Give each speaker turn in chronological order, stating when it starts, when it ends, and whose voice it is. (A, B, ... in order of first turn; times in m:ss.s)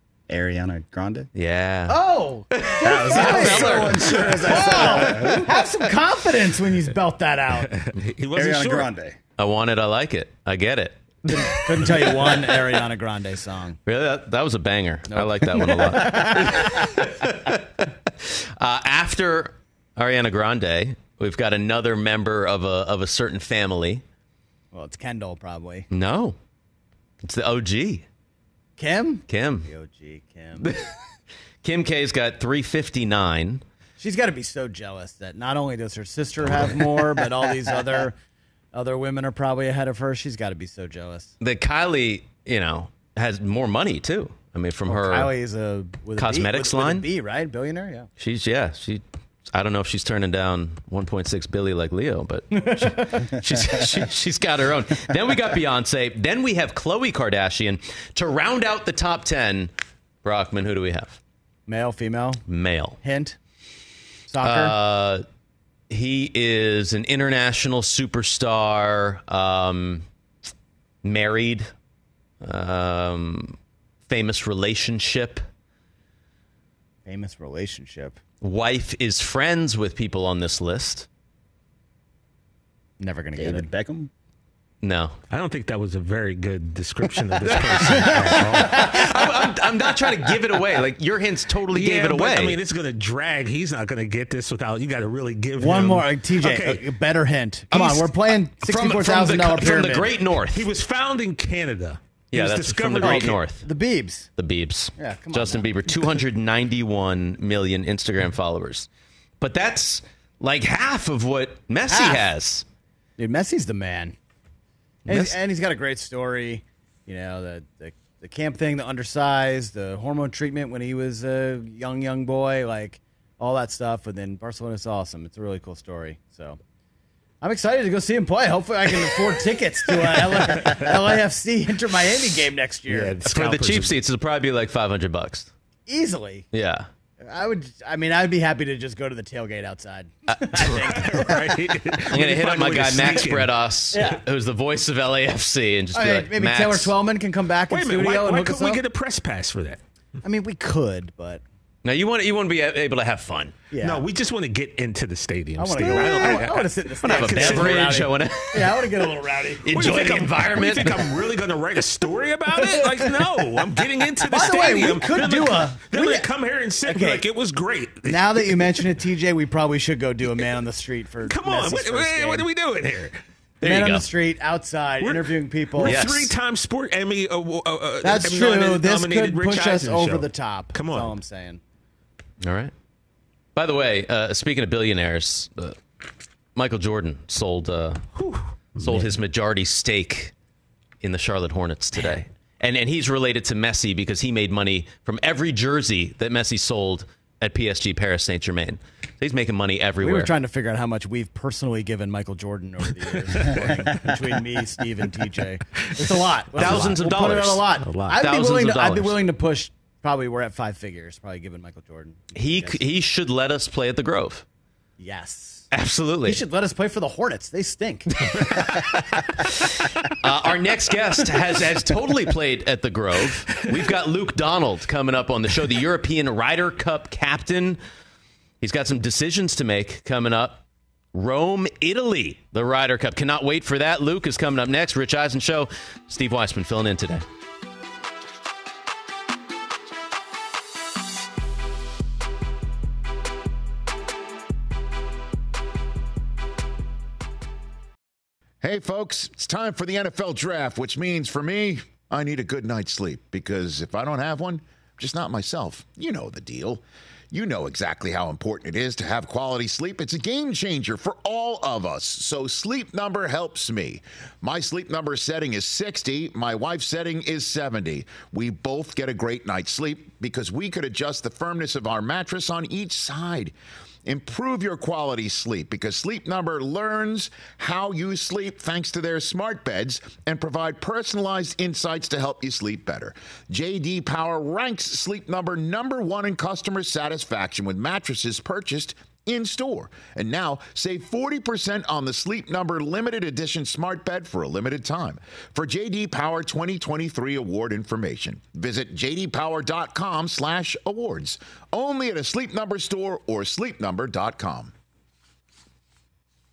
0:00.3-0:01.3 A
0:01.3-0:04.7 B
0:01.9-0:07.7 C
0:02.8-0:05.5 A
0:03.2-0:03.5 D
0:04.0-0:05.5 D
0:07.6-0:08.9 D
0:08.3-0:09.2 A
0:09.4-0:12.2 B
0:11.3-0:13.8 C
0:13.9-0:24.0 B
0:15.1-0:16.7 C
0:24.7-0:25.9 C
0:25.9-0:26.4 B
0:27.2-0:28.0 B
0:28.8-0:30.7 C
0:29.3-0:29.7 B
0:30.6-0:30.9 B
0:31.6-0:33.6 B
0:34.0-0:38.1 C
0:38.7-0:41.3 C
0:41.4-0:45.3 B
0:44.9-0:48.1 C
0:46.2-0:47.0 B
0:48.2-0:59.7 B
0:52.6-0:53.2 C
1:00.2-1:01.2 B
1:01.7-1:02.4 C
1:02.5-1:03.0 B
1:03.0-1:03.4 C
1:04.3-1:04.7 C
1:04.4-1:05.2 B
1:05.9-1:10.0 B
1:11.0-1:11.7 B
1:12.4-1:13.6 B
1:14.1-1:15.4 B
1:17.0-1:18.2 C
1:18.4-1:21.1 B
1:23.0-1:23.7 C
1:23.4-1:24.1 A
1:24.8-1:25.2 B
1:25.3-1:29.3 D
1:27.4-1:32.6 B
1:28.6-1:29.0 C
1:31.7-1:36.8 D
1:35.6-1:40.1 C
1:37.7-1:40.6 B
1:40.5-1:43.4 D
1:42.3-1:43.6 B
1:43.0-1:44.3 C
1:44.4-1:48.9 B
1:45.0-1:45.7 C
1:49.4-1:52.6 B
1:51.9-1:52.2 C
1:53.2-1:54.2 C
1:55.1-1:55.3 B
1:55.1-2:06.6 C
2:07.4-2:13.2 C
2:10.2-2:10.9 D
2:12.9-2:14.0 D
2:13.3-2:15.5 B
2:15.9-2:16.4 C
2:16.5-2:16.9 B
2:17.2-2:21.6 C
2:20.3-2:20.8 B
2:20.6-2:23.5 D
2:22.1-2:26.9 B
2:23.9-2:24.2 C
2:25.9-2:28.8 C
2:27.7-2:29.8 D
2:30.2-2:31.4 C
2:31.8-2:33.5 B
2:33.7-2:34.0 C
2:33.8-2:38.0 D
2:35.6-2:39.7 C
2:35.8-2:36.4 B
2:37.0-2:38.9 B
2:39.6-2:41.1 B
2:39.6-2:48.8 D
2:42.6-2:43.2 C
2:44.3-2:46.3 C
2:46.8-2:47.2 C
2:48.1-2:52.5 C
2:51.2-2:53.1 D
2:53.6-2:54.0 B
2:53.6-2:56.0 C
2:55.0-3:01.1 D
2:55.8-2:56.3 B
2:58.0-3:01.6 C
3:02.4-3:02.7 B
3:03.5-3:05.8 B
3:06.6-3:08.0 B
3:08.2-3:09.1 D
3:08.8-3:10.3 B
3:11.0-3:20.3 B
3:20.0-3:32.8 C
3:23.5-3:23.9 D
3:26.5-3:27.0 D
3:26.6-3:27.6 B
3:27.8-3:28.2 D
3:28.2-3:29.2 B
3:32.3-3:34.4 B
3:35.0-3:35.6 C
3:35.7-3:36.4 B
3:36.2-3:38.8 C
3:40.0-3:47.8 B
3:48.6-3:50.6 B
3:51.1-3:57.2 B
4:08.6-4:33.5 E
4:34.0-5:04.7 E